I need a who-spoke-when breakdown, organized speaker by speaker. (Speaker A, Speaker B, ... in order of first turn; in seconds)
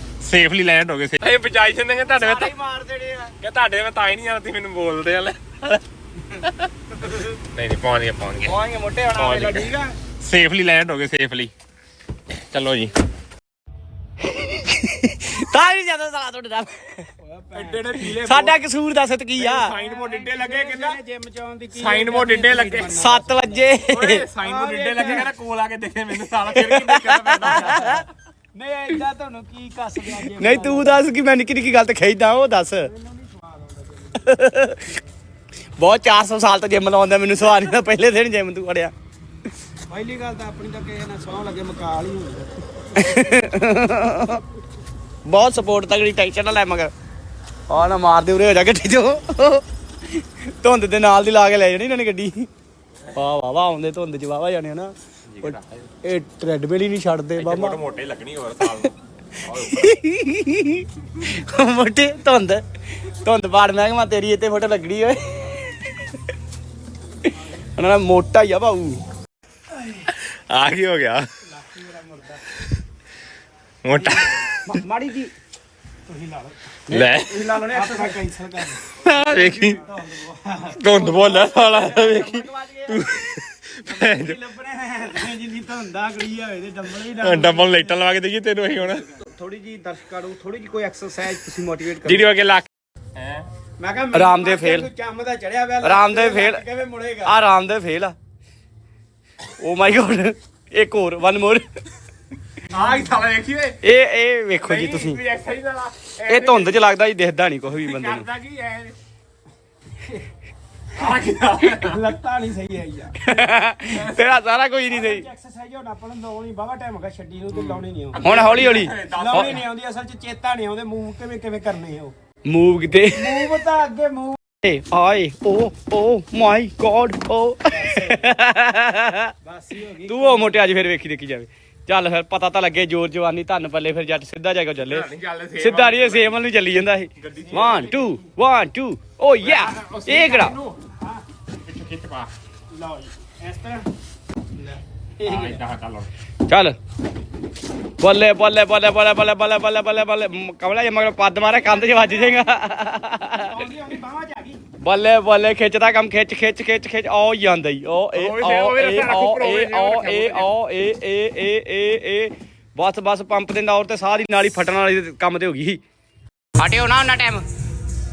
Speaker A: 0.2-2.5, 3.4-5.8, 7.5-8.5, 9.2-9.7, 10.2-11.5, 12.5-12.9, 17.6-18.5, 19.4-21.0, 21.7-22.9, 23.9-28.0, 55.3-55.9, 57.4-58.9, 59.4-59.8, 70.3-71.2, 73.8-74.6, 76.9-77.5, 79.0-79.8, 80.8-84.4, 87.2-89.0, 92.0-93.5, 102.7-103.8, 104.6-106.9, 107.7-108.9, 111.0-112.0, 118.1-119.7, 134.9-136.4, 137.2-138.0, 139.4-140.7, 141.7-142.3, 145.2-146.1, 158.2-160.5
Speaker B: 2.1-3.3, 8.4-9.4, 14.3-17.1, 18.1-19.7, 22.9-24.3, 26.4-28.0, 30.2-32.9, 34.2-34.9, 35.8-38.9, 43.0-44.4, 45.3-46.9, 47.7-49.6, 50.2-52.5, 53.1-57.8, 59.7-62.6, 63.2-65.6, 67.8-69.0, 74.7-75.3, 76.9-78.7, 81.0-83.0, 89.4-89.9, 90.6-90.9, 91.7-92.1, 94.1-94.9, 95.8-96.6, 97.2-98.2, 99.6-101.7, 103.8-105.2, 106.3-108.3, 113.3-115.2, 117.6-119.6, 122.5-123.5, 124.6-129.3, 130.1-140.6, 146.5-146.8, 148.0-153.6, 154.8-165.8, 166.6-167.4
Speaker C: 9.3-9.9, 17.2-18.1, 19.8-23.6, 24.4-25.3, 28.5-31.0, 32.9-34.1, 39.9-42.5, 71.5-72.4, 76.1-76.5, 77.5-78.7, 79.6-80.9, 84.7-87.9, 89.9-90.5, 93.8-97.3, 111.7-113.2, 114.9-118.2, 118.9-122.1, 123.2-124.4, 127.8-128.3, 129.4-130.5, 137.6-137.8, 142.7-143.9, 144.6-145.6, 151.8-152.3, 153.5-154.6